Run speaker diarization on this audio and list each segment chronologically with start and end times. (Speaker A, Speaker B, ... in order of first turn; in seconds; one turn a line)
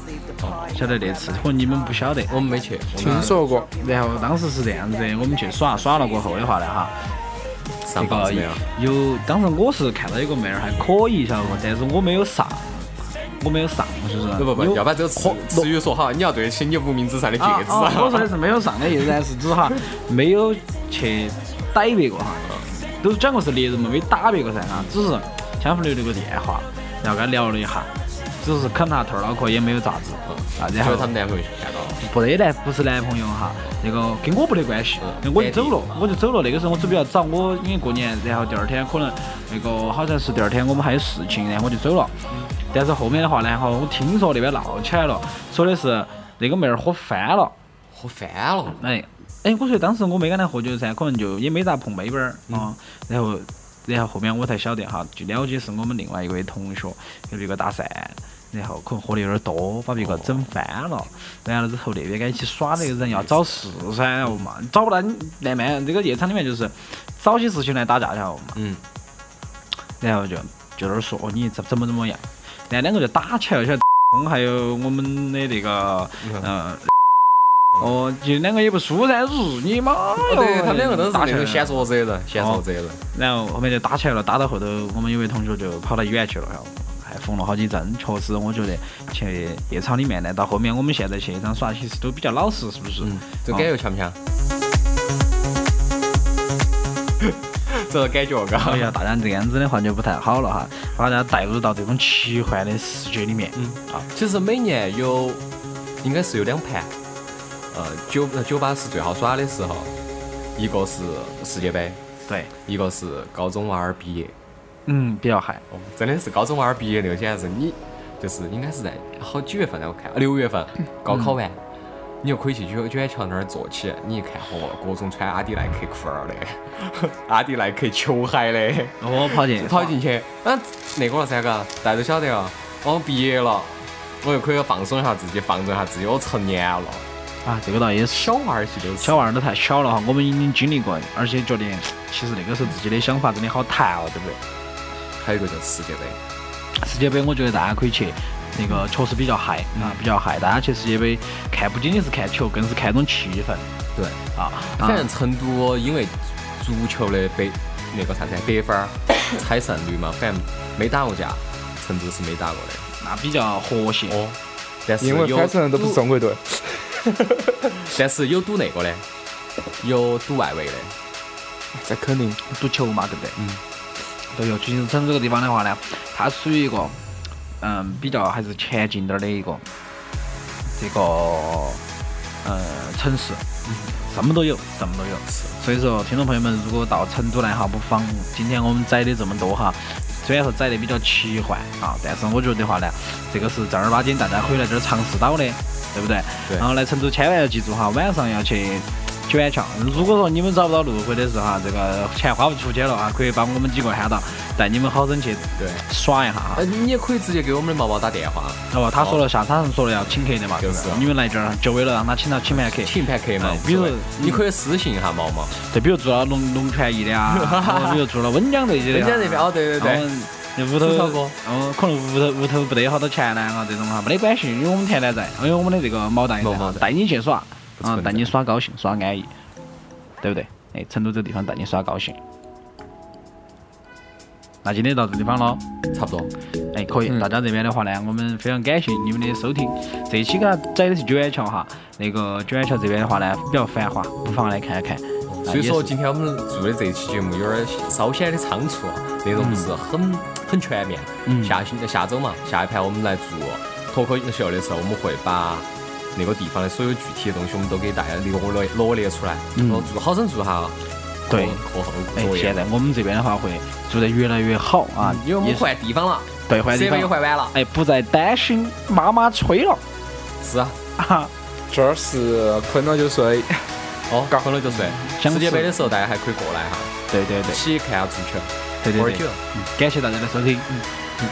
Speaker A: 0.4-0.7
Speaker B: 0.7-2.3
Speaker A: 2.3-3.4
Speaker C: 3.0-3.7
Speaker B: 3.8-7.1
Speaker A: 7.8-8.6
Speaker B: 8.0-15.7
Speaker A: 14.4-18.3
Speaker B: 17.4-31.1
Speaker A: 30.2-32.0
Speaker B: 32.0-47.5
Speaker A: 35.0-35.8
Speaker A: 47.9-48.8
Speaker B: 48.8-68.6
Speaker A: 60.0-60.4
Speaker A: 63.0-63.3
Speaker A: 68.5-68.8
Speaker B: 70.0-76.9
Speaker A: 76.2-76.5
Speaker B: 77.8-81.8
Speaker A: 80.2-83.0
Speaker B: 82.4-93.7
Speaker A: 93.0-94.2
Speaker A: 97.2-98.9
Speaker B: 98.6-104.1
Speaker A: 103.6-105.4
Speaker A: 106.0-106.9
Speaker A: 107.7-109.9
Speaker A: 110.6-112.0
Speaker A: 112.7-114.3
Speaker B: 114.9-115.6
Speaker A: 115.7-121.6
Speaker B: 121.1-121.3
Speaker A: 122.2-137.1
Speaker B: 129.0-129.9
Speaker B: 137.4-138.3
Speaker A: 138.1-139.2
Speaker B: 139.0-144.4
Speaker A: 145.2-146.2
Speaker B: 146.7-153.7
Speaker A: 153.9-154.2
Speaker B: 154.3-155.1
Speaker A: 154.8-162.9
Speaker B: 163.0-164.2
Speaker A: 164.1-166.0
Speaker C: 165.0-167.2
Speaker A: 167.8-169.1
Speaker A: 169.8-171.0
Speaker C: 171.7-172.4
Speaker B: 172.5-173.4
Speaker A: 173.4-173.6
Speaker B: 174.2-177.0
Speaker B: 177.6-179.7
Speaker B: 180.8-181.8
Speaker B: 182.4-206.7
Speaker A: 183.7-183.9
Speaker A: 185.3-185.6
Speaker A: 205.6-205.8
Speaker A: 206.6-209.2
Speaker B: 208.7-214.4
Speaker A: 210.6-211.1
Speaker A: 212.5-215.6
Speaker B: 215.5-229.3
Speaker A: 217.3-218.0
Speaker A: 218.9-220.1
Speaker A: 220.8-221.4
Speaker A: 226.4-226.9
Speaker A: 227.8-228.3
Speaker B: 230.2-232.2
Speaker B: 234.6-235.6
Speaker A: 235.9-236.3
Speaker B: 236.7-245.9
Speaker A: 245.3-262.6
Speaker B: 249.4-249.7
Speaker B: 251.3-251.6
Speaker B: 259.6-259.9
Speaker B: 261.3-261.6
Speaker B: 262.1-265.6
Speaker A: 265.0-267.6
Speaker B: 266.5-269.8
Speaker A: 270.4-270.8
Speaker B: 271.0-271.3
Speaker C: 271.7-273.7
Speaker A: 274.1-279.4
Speaker B: 275.0-275.7
Speaker B: 277.1-277.6
Speaker B: 278.8-280.9